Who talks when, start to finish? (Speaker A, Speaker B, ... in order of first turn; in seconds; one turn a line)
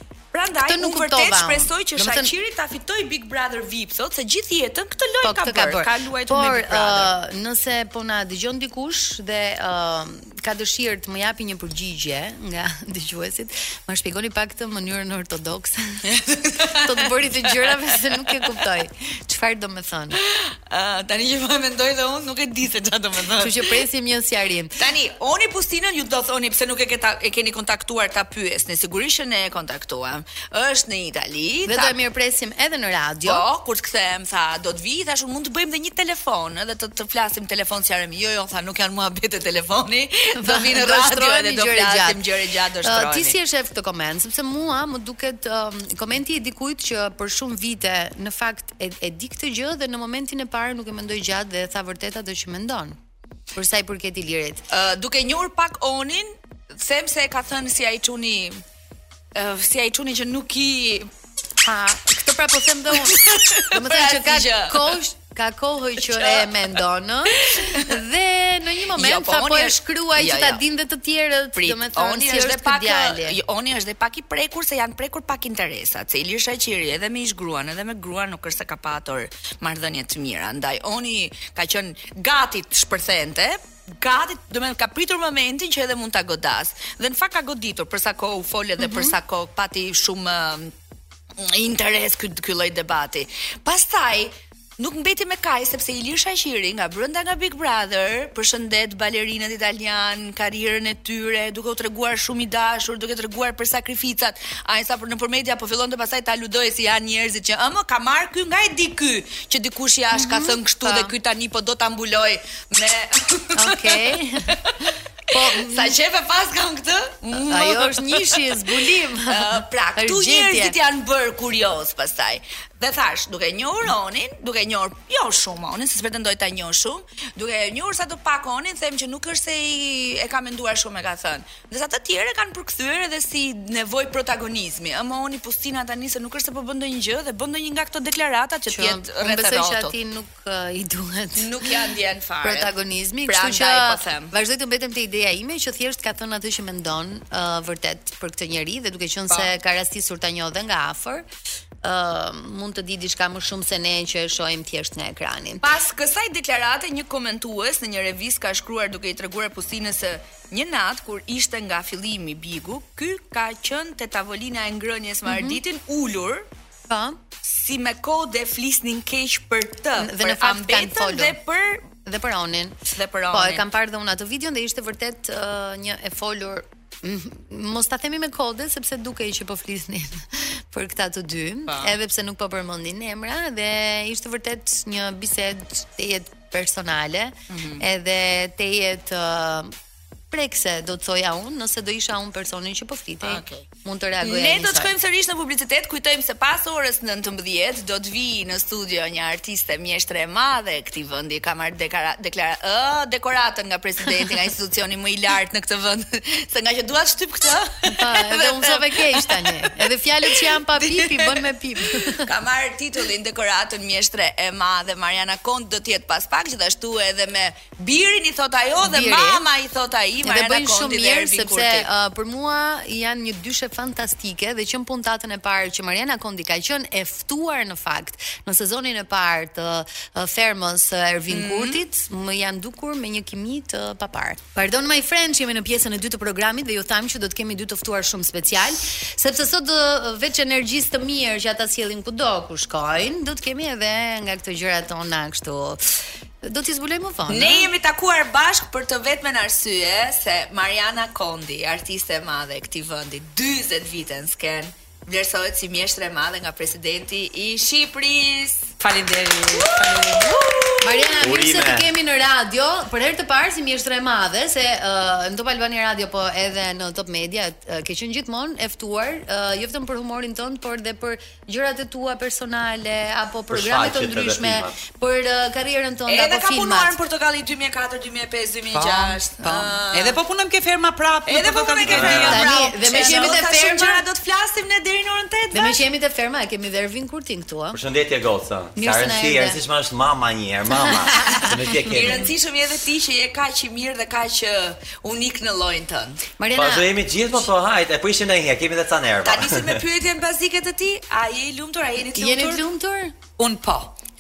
Speaker A: 0.3-7.1
Speaker B: 0.7-2.3
Speaker B: 5.2-16.1
Speaker A: 16.1-18.1
Speaker B: 16.6-20.2
Speaker A: 20.2-23.7
Speaker B: 23.4-24.8
Speaker A: 24.8-31.9
Speaker B: 31.7-33.4
Speaker A: 33.2-43.3
Speaker B: 40.4-42.2
Speaker B: 42.8-53.0
Speaker B: 53.5-54.6
Speaker A: 54.7-58.6
Speaker A: 59.4-61.1
Speaker B: 61.6-73.4
Speaker A: 62.9-64.9
Speaker A: 66.0-66.5
Speaker A: 67.5-68.0
Speaker A: 68.9-70.6
Speaker A: 71.6-90.7
Speaker B: 88.8-89.1
Speaker A: 91.4-139.9
Speaker B: 110.1-111.1
Speaker B: 113.5-114.6
Speaker B: 115.3-116.0
Speaker B: 117.4-120.8
Speaker B: 138.7-141.7
Speaker A: 141.4-142.7
Speaker B: 142.4-151.2
Speaker A: 143.3-144.3
Speaker B: 151.8-155.7
Speaker A: 155.6-166.5
Speaker B: 165.2-165.6
Speaker B: 166.9-167.2
Speaker A: 167.4-171.9
Speaker B: 170.0-172.8
Speaker A: 172.9-173.6
Speaker B: 173.3-189.7
Speaker A: 181.7-181.9
Speaker A: 187.5-187.8
Speaker B: 190.3-194.9
Speaker A: 193.2-193.7
Speaker A: 194.2-221.9
Speaker B: 207.9-212.3
Speaker B: 218.8-219.4
Speaker B: 220.2-247.7
Speaker A: 231.3-231.8
Speaker A: 247.3-258.7
Speaker C: 258.8-260.7
Speaker A: 259.5-261.2
Speaker B: 260.8-276.9
Speaker D: 261.2-261.9
Speaker D: 273.5-274.8
Speaker A: 276.1-280.2
Speaker C: 278.7-283.4
Speaker A: 281.3-285.8
Speaker D: 281.9-282.4
Speaker B: 282.2-284.0
Speaker B: 285.5-287.8
Speaker D: 287.7-292.3
Speaker B: 288.8-289.6
Speaker B: 290.8-291.4
Speaker A: 291.2-296.2
Speaker B: 296.4-297.1
Speaker D: 296.6-299.9
Speaker A: 299.2-302.6
Speaker B: 302.1-303.1
Speaker C: 303.4-303.9